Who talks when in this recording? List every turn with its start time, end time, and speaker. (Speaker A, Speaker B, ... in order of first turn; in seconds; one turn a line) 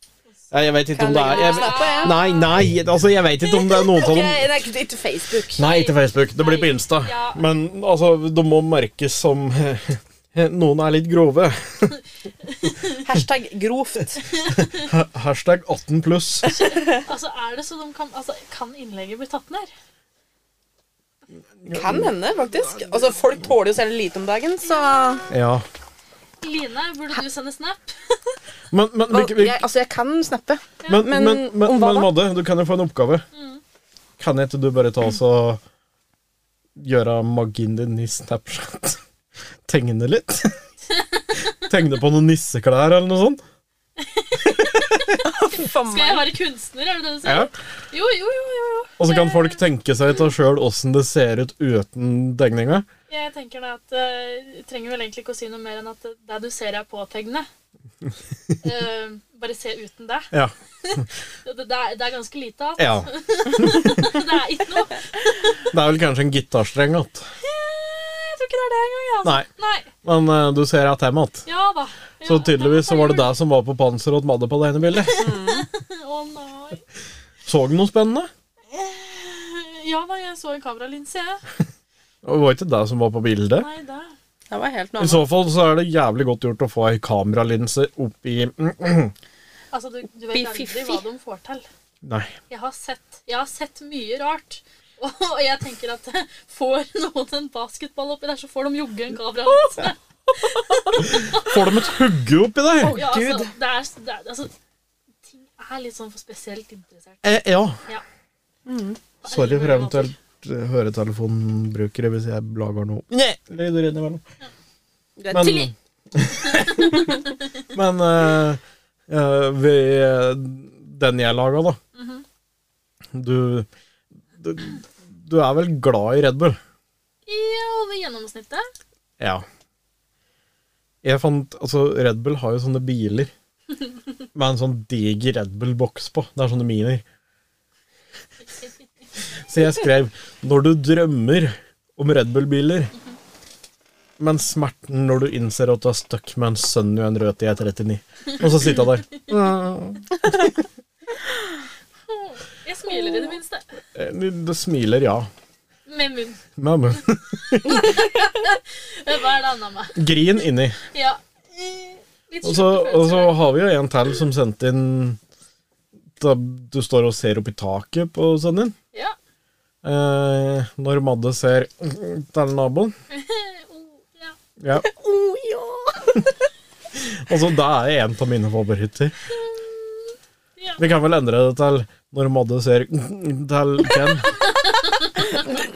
Speaker A: 0.5-4.5
Speaker B: 0.9-2.2
Speaker C: 1.1-2.5
Speaker B: 3.5-5.6
Speaker A: 5.6-12.0
Speaker C: 5.6-7.4
Speaker B: 13.0-14.2
Speaker C: 14.4-14.9
Speaker A: 14.5-16.6
Speaker C: 16.4-19.7
Speaker B: 16.6-17.0
Speaker A: 21.6-22.1
Speaker B: 21.7-25.2
Speaker C: 24.7-25.3
Speaker A: 25.3-25.7
Speaker C: 26.4-28.4
Speaker A: 28.7-29.6
Speaker B: 29.1-32.1
Speaker A: 30.9-33.3
Speaker C: 33.3-33.6
Speaker A: 34.2-35.6
Speaker A: 36.8-39.0
Speaker A: 39.6-40.6
Speaker A: 41.7-43.4
Speaker C: 44.0-49.6
Speaker A: 44.4-45.1
Speaker B: 45.2-46.3
Speaker A: 47.2-47.5
Speaker A: 49.0-52.9
Speaker C: 53.1-57.5
Speaker C: 58.6-65.7
Speaker A: 60.3-61.0
Speaker A: 62.8-64.1
Speaker A: 65.7-67.3
Speaker C: 67.4-69.9
Speaker A: 70.0-71.5
Speaker C: 71.5-73.3
Speaker A: 72.2-75.3
Speaker C: 75.0-76.8
Speaker B: 75.2-75.7
Speaker A: 77.5-78.3
Speaker C: 78.7-81.4
Speaker A: 82.2-83.7
Speaker C: 83.6-84.2
Speaker B: 84.5-85.3
Speaker A: 85.0-89.1
Speaker C: 89.7-91.7
Speaker B: 90.3-91.0
Speaker A: 92.0-92.3
Speaker C: 92.5-101.9
Speaker B: 100.4-101.0
Speaker A: 101.0-103.0
Speaker B: 102.8-103.5
Speaker C: 102.8-104.5
Speaker C: 105.3-108.0
Speaker A: 107.2-107.8
Speaker B: 108.7-109.0
Speaker A: 109.2-114.2
Speaker C: 109.2-110.1
Speaker B: 115.2-115.7
Speaker A: 115.3-117.2
Speaker C: 115.3-115.7
Speaker C: 116.4-117.1
Speaker A: 117.7-121.8
Speaker C: 122.0-122.2
Speaker A: 123.1-123.7
Speaker A: 124.4-126.6
Speaker C: 127.3-128.7
Speaker A: 129.2-129.4
Speaker A: 131.0-133.3
Speaker A: 134.3-137.0
Speaker A: 139.5-142.9
Speaker A: 144.2-150.6
Speaker C: 152.1-153.7
Speaker B: 152.9-153.4
Speaker A: 153.9-155.3
Speaker C: 155.9-156.4
Speaker A: 156.6-157.9
Speaker C: 157.5-160.0
Speaker A: 159.9-160.8
Speaker C: 160.9-163.5
Speaker A: 162.4-165.2
Speaker A: 166.2-168.8
Speaker A: 169.8-172.9
Speaker C: 173.1-174.4
Speaker A: 174.6-174.9
Speaker B: 174.8-176.2
Speaker A: 176.9-179.2
Speaker C: 179.5-179.9
Speaker C: 180.6-180.8
Speaker A: 180.8-184.3